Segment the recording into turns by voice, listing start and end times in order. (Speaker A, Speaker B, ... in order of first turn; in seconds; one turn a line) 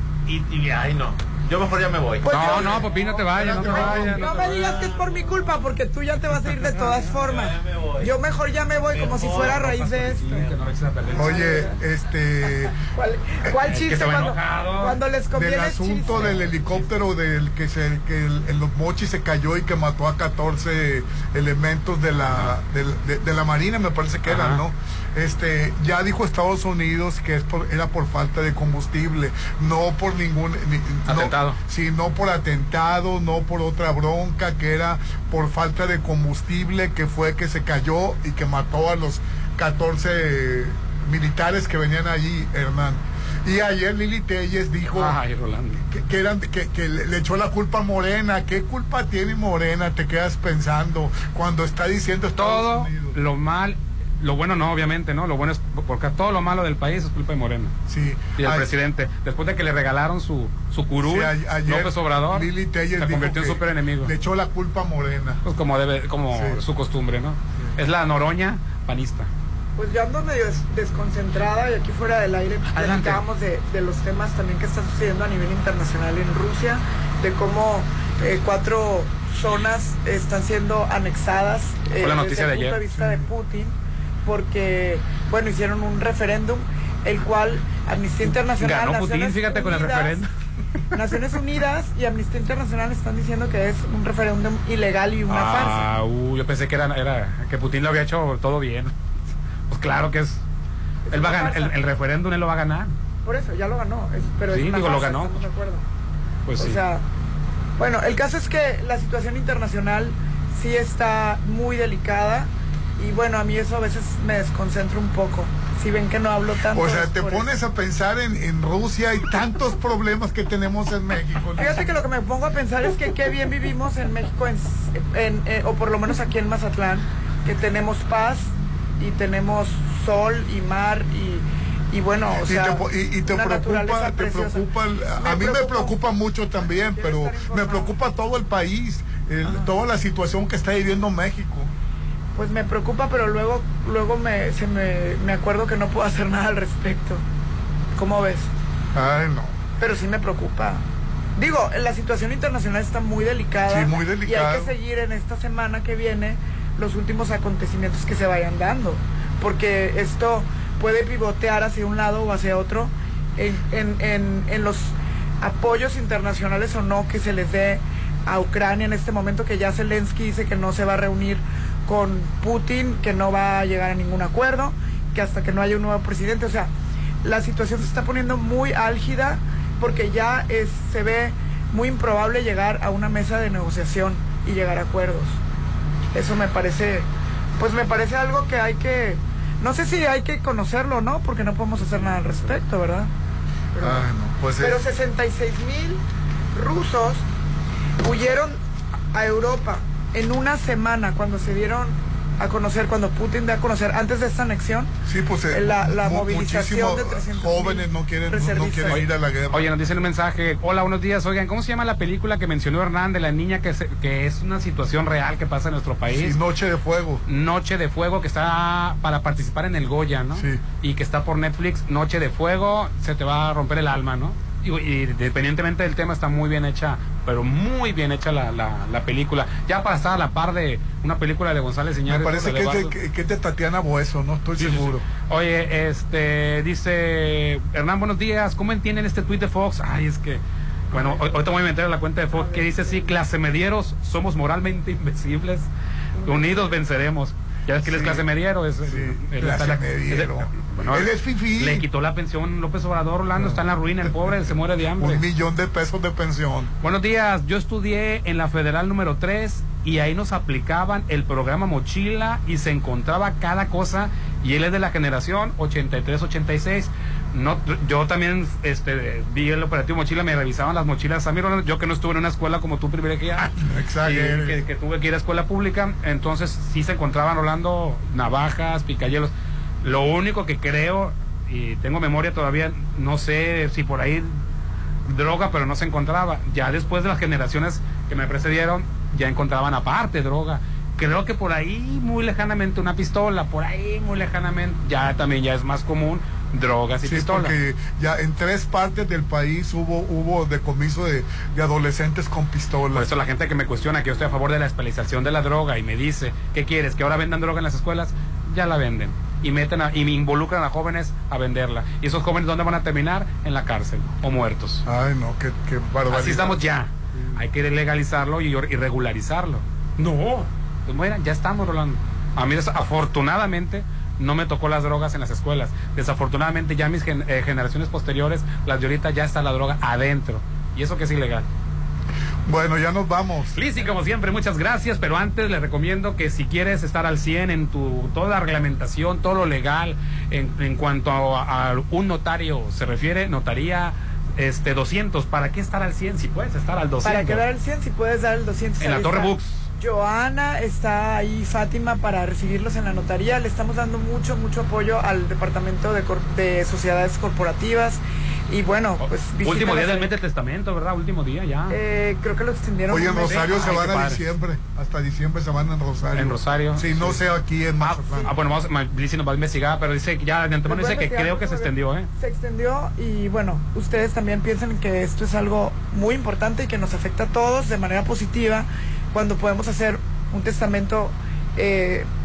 Speaker A: 0.3-5.3
Speaker B: 2.2-2.9
Speaker C: 2.2-4.6
Speaker D: 3.3-4.0
Speaker B: 3.6-10.5
Speaker A: 6.8-8.1
Speaker A: 8.9-9.6
Speaker C: 8.9-11.6
Speaker B: 11.1-11.7
Speaker D: 11.1-12.7
Speaker B: 12.5-16.4
Speaker C: 13.6-15.0
Speaker D: 15.3-45.1
Speaker C: 16.1-16.9
Speaker C: 24.2-24.6
Speaker C: 31.1-31.6
Speaker C: 44.9-45.8
Speaker D: 45.9-53.2
Speaker C: 52.4-57.7
Speaker D: 57.9-58.7
Speaker C: 58.4-64.1
Speaker D: 61.0-65.4
Speaker C: 65.4-69.3
Speaker D: 66.3-66.6
Speaker B: 69.8-83.7
Speaker C: 72.7-73.2
Speaker C: 82.0-82.8
Speaker D: 82.9-83.3
Speaker B: 84.2-90.2
Speaker C: 88.6-90.3
Speaker B: 90.9-95.9
Speaker C: 95.3-98.9
Speaker C: 99.7-100.4
Speaker B: 101.1-101.7
Speaker C: 101.1-102.9
Speaker B: 103.2-105.8
Speaker C: 104.5-105.4
Speaker C: 106.5-106.8
Speaker B: 106.6-107.0
Speaker B: 107.8-117.5
Speaker D: 116.7-121.9
Speaker B: 121.6-134.7
Speaker D: 132.4-141.7
Speaker B: 135.2-136.0
Speaker B: 136.9-137.9
Speaker B: 139.4-139.7
Speaker B: 142.3-147.2
Speaker B: 147.9-148.5
Speaker D: 148.9-149.5
Speaker B: 149.8-150.8
Speaker B: 151.4-176.7
Speaker D: 153.6-154.7
Speaker B: 177.2-185.4
Speaker B: 186.1-187.1
Speaker B: 187.6-193.1
Speaker B: 193.8-194.1
Speaker D: 193.8-194.8
Speaker B: 194.6-196.0
Speaker B: 196.5-197.2
Speaker B: 198.0-198.6
Speaker B: 199.1-204.9
Speaker D: 205.1-209.7
Speaker B: 205.5-209.1
Speaker C: 208.9-216.3
Speaker D: 216.1-217.2
Speaker C: 217.2-232.9
Speaker D: 220.3-220.6
Speaker D: 232.1-235.0
Speaker C: 234.6-245.7
Speaker B: 242.3-242.7
Speaker B: 246.2-246.7
Speaker C: 246.2-255.2
Speaker D: 247.8-248.2
Speaker D: 248.8-251.8
Speaker D: 255.0-256.7
Speaker C: 256.8-284.4
Speaker D: 273.6-274.6
Speaker C: 285.1-297.6
Speaker D: 297.0-303.1
Speaker C: 302.9-314.8
Speaker D: 314.8-316.6
Speaker C: 316.1-331.4
Speaker D: 332.4-333.5
Speaker C: 333.5-347.4
Speaker B: 347.0-360.1
Speaker C: 348.8-349.6
Speaker C: 359.0-361.8
Speaker B: 361.7-363.8
Speaker D: 362.9-368.3
Speaker C: 363.2-364.2
Speaker C: 366.1-367.2
Speaker C: 367.8-372.1
Speaker B: 370.7-382.1